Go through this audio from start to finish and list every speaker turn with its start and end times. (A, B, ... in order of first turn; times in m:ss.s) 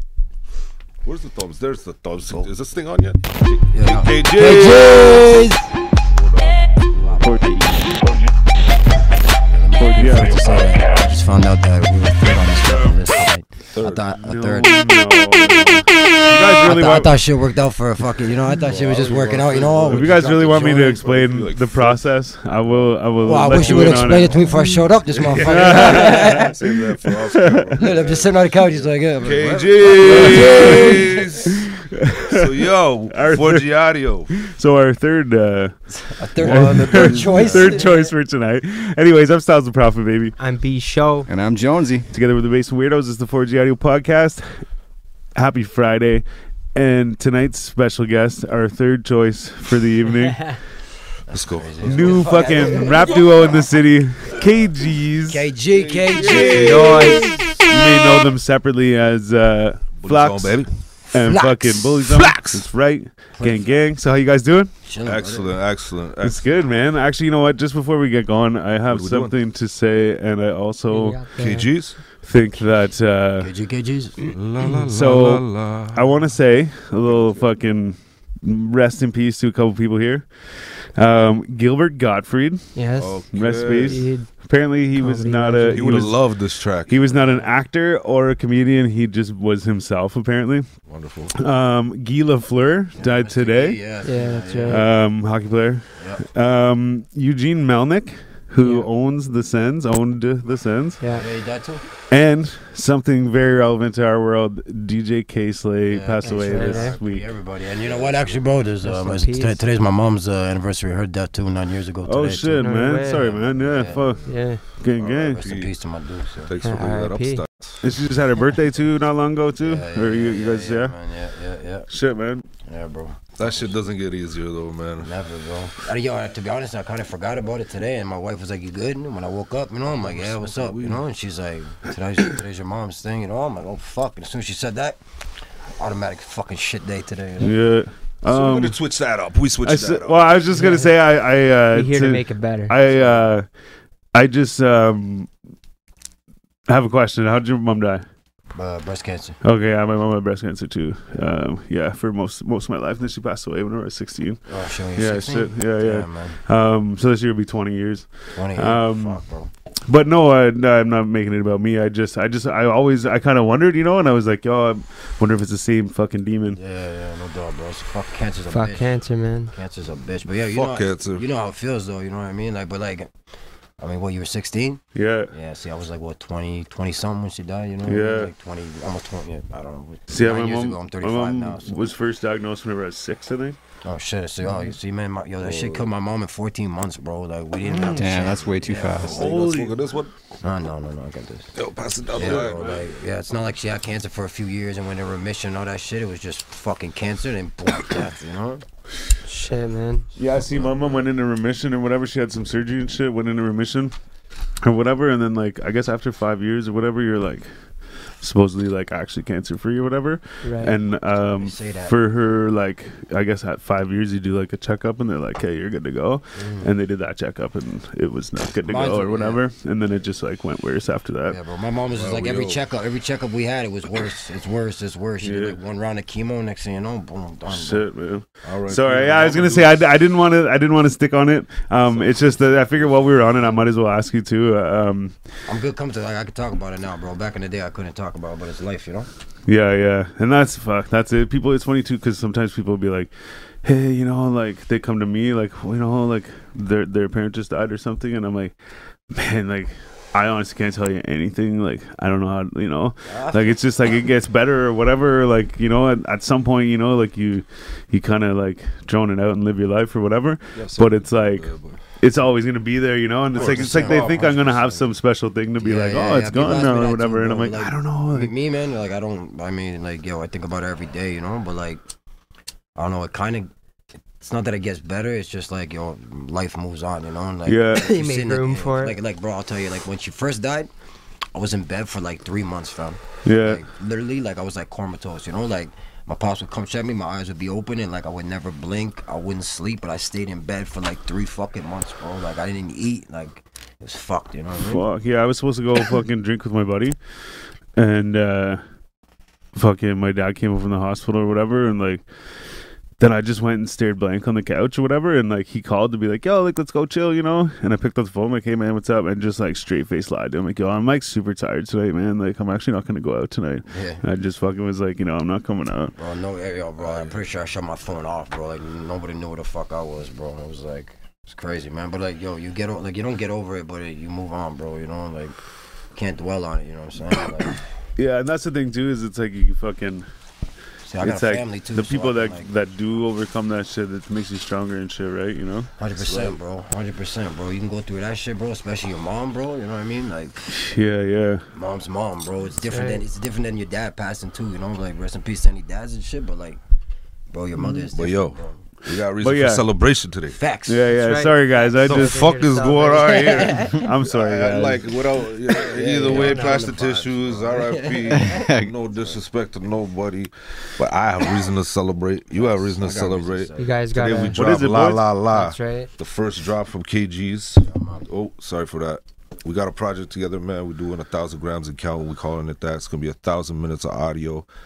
0:01.0-0:05.5 A
0:03.7-0:05.7 B
0:06.1-0:07.3 A
0:07.0-0:07.3 B
0:07.2-0:08.0 C
0:09.4-0:14.8 B
0:09.8-0:10.8 C
0:12.7-0:13.0 C
0:13.7-0:14.1 A
0:14.2-0:17.2 C
0:16.5-0:21.0 B
0:18.6-0:22.0 A
0:19.9-0:24.6 C
0:22.6-0:24.2 A
0:23.2-0:26.6 B
0:25.1-0:34.3 A
0:25.2-0:27.9 C
0:27.8-0:31.2 B
0:29.9-0:32.6 C
0:33.1-0:33.7 C
0:34.3-0:40.4 C
0:36.1-0:38.1 B
0:36.5-0:37.4 A
0:37.2-0:38.0 D
0:40.4-0:41.3 D
0:41.3-0:42.1 E
0:42.1-0:44.6 C
0:45.4-0:50.6 C
0:51.3-0:53.5 B
0:51.3-0:52.2 A
0:51.8-0:55.5 C
0:55.3-0:57.3 B
0:55.7-0:57.2 A
0:56.1-1:04.7 C
0:56.6-0:57.3 D
1:00.0-1:00.7 A
1:01.2-1:01.9 B
1:02.0-1:02.7 A
1:03.4-1:03.7 B
1:04.8-1:05.5 B
1:05.0-1:06.4 A
1:06.2-1:11.2 C
1:08.9-1:09.4 A
1:10.9-1:11.7 D
1:11.4-1:12.0 A
1:12.2-1:13.5 C
1:13.4-1:14.3 B
1:14.3-1:16.3 A
1:14.6-1:22.8 C
1:16.9-1:17.5 A
1:22.8-1:24.3 D
1:23.0-1:24.0 A
1:23.3-1:30.7 C
1:25.0-1:26.1 D
1:25.7-1:27.0 A
1:30.9-1:31.4 A
1:31.4-1:33.8 C
1:33.0-1:34.9 B
1:34.0-1:34.8 D
1:34.7-1:41.0 C
1:36.0-1:36.2 B
1:38.6-1:38.9 D
1:41.0-1:41.3 D
1:41.1-1:41.8 B
1:42.0-1:47.3 C
1:45.9-1:54.3 B
1:46.2-1:47.0 D
1:47.8-1:48.4 A
1:48.8-1:49.6 D
1:52.0-1:55.4 C
1:52.6-1:53.4 D
1:54.3-1:54.6 D
1:55.0-1:55.7 A
1:55.3-1:56.5 B
1:56.4-1:57.9 A
1:56.6-1:57.4 D
1:57.8-2:01.0 C
1:59.6-2:01.9 B
2:01.9-2:02.4 C
2:02.6-2:03.8 B
2:03.4-2:05.1 A
2:05.0-2:17.5 B
2:10.0-2:11.0 A
2:17.4-2:18.8 C
2:18.3-2:20.3 A
2:19.6-2:23.5 C
2:20.5-2:20.9 D
2:21.7-2:22.7 D
2:22.9-2:23.3 B
2:24.1-2:25.3 C
2:26.7-2:28.0 C
2:28.5-2:29.4 B
2:29.4-2:34.4 C
2:34.5-2:36.4 B
2:34.9-2:39.2 C
2:38.4-2:39.5 B
2:39.9-2:46.6 C
2:46.5-2:49.0 B
2:48.5-2:49.5 D
2:49.5-2:53.1 B
2:50.5-2:51.3 A
2:53.8-3:01.8 B
2:55.0-2:55.3 C
2:57.9-2:58.3 C
3:00.1-3:03.6 C
3:03.8-3:09.3 B
3:05.4-3:05.9 A
3:07.6-3:08.2 D
3:07.9-3:09.3 E
3:08.9-3:10.1 A
3:09.0-3:09.8 C
3:10.4-3:11.5 B
3:11.6-3:12.8 A
3:12.1-3:18.6 B
3:12.2-3:12.9 C
3:19.2-3:20.1 D
3:20.2-3:23.9 C
3:24.6-3:27.5 C
3:28.2-3:41.4 C
3:30.4-3:30.8 D
3:31.3-3:32.0 B
3:36.4-3:36.7 B
3:38.7-3:39.4 B
3:41.3-3:47.8 B
3:41.9-3:42.6 A
3:45.2-3:45.6 C
3:47.5-3:55.2 C
3:48.4-3:49.8 A
3:51.9-3:52.4 A
3:55.5-3:59.1 B
3:59.5-4:03.1 C
4:03.6-4:08.5 C
4:09.1-4:21.5 C
4:13.1-4:13.6 B
4:20.5-4:21.8 A
4:22.0-4:28.3 C
4:23.3-4:24.8 A
4:23.4-4:24.6 B
4:25.6-4:31.8 B
4:32.8-4:33.5 B
4:34.2-4:40.7 B
4:37.5-4:37.9 C
4:37.7-4:39.0 D
4:41.3-4:54.8 B
4:43.2-4:43.6 C
4:54.6-4:57.0 C
4:57.8-4:58.6 C
4:59.6-5:02.0 C
5:03.0-5:15.9 C
5:13.7-5:14.0 B
5:16.0-5:25.4 B
5:16.8-5:17.1 A
5:25.9-5:27.6 B
5:28.0-5:30.0 C
5:30.9-5:32.5 B
5:31.0-5:35.7 C
5:35.8-5:40.6 B
5:36.0-5:36.4 A
5:40.5-5:41.4 C
5:41.5-5:46.6 B
5:42.7-5:43.0 D
5:47.3-5:48.6 B
5:47.9-5:50.4 A
5:49.2-5:49.6 C
5:50.3-5:51.8 B
5:50.7-5:54.9 C
5:50.9-5:53.8 D
5:51.8-6:14.5 A
5:53.4-5:53.8 B
5:55.5-5:59.2 B
5:56.1-5:56.6 D
5:58.2-5:58.7 E
6:02.3-6:04.4 B
6:03.6-6:04.4 D
6:04.3-6:05.2 C
6:05.3-6:05.9 D
6:07.6-6:08.1 B